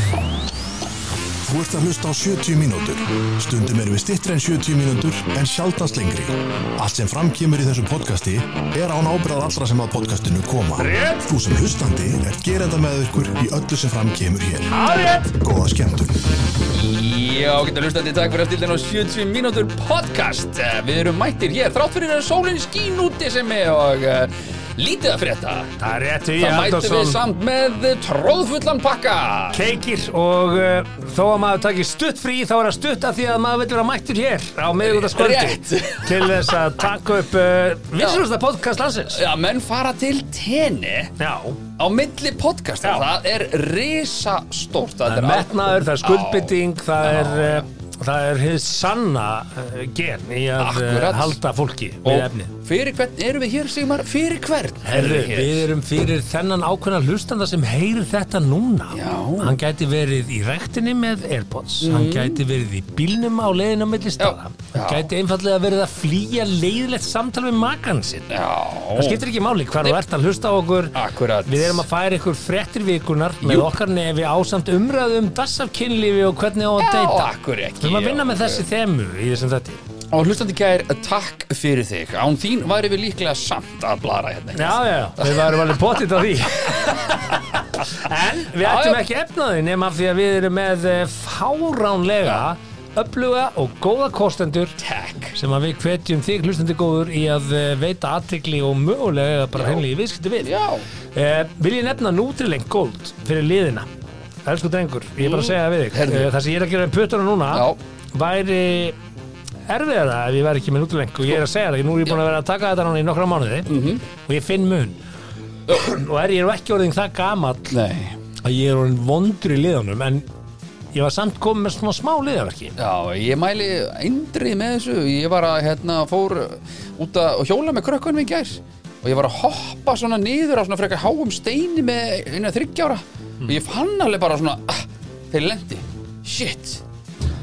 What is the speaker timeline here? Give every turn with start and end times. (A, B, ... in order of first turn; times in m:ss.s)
0:01.4-0:14.8 A
0:10.8-0:11.3 B
0:14.7-0:15.4 B
0:15.3-0:16.2 A
0:16.7-0:25.7 C
0:25.8-0:27.2 B
0:26.4-0:29.6 C
0:29.5-0:39.2 B
0:34.8-0:36.6 C
0:38.0-0:38.2 C
0:39.1-0:41.2 C
0:41.2-0:41.6 B
0:41.8-0:47.7 C
0:45.1-0:52.5 B
0:50.6-0:51.4 C
0:52.0-0:55.6 C
0:54.8-1:08.3 B
0:58.9-0:59.6 C
1:01.8-1:02.4 C
1:04.2-1:05.1 C
1:08.3-1:09.2 C
1:09.0-1:19.8 B
1:10.9-1:11.8 C
1:13.4-1:13.7 C
1:16.8-1:18.7 C
1:20.1-1:25.9 C
1:24.6-1:34.8 B
1:27.3-1:28.0 C
1:28.6-1:29.0 C
1:34.8-1:35.4 C
1:35.4-1:40.5 B
1:39.6-1:39.8 C
1:40.4-1:40.9 C
1:41.1-1:43.9 B
1:44.4-1:49.0 B
1:45.2-1:46.3 C
1:47.5-1:47.8 C
1:49.7-1:55.0 B
1:53.7-1:54.0 C
1:55.7-1:57.8 B
1:57.7-1:58.2 C
1:58.4-2:00.3 B
2:00.9-2:02.8 B
2:02.8-2:16.8 C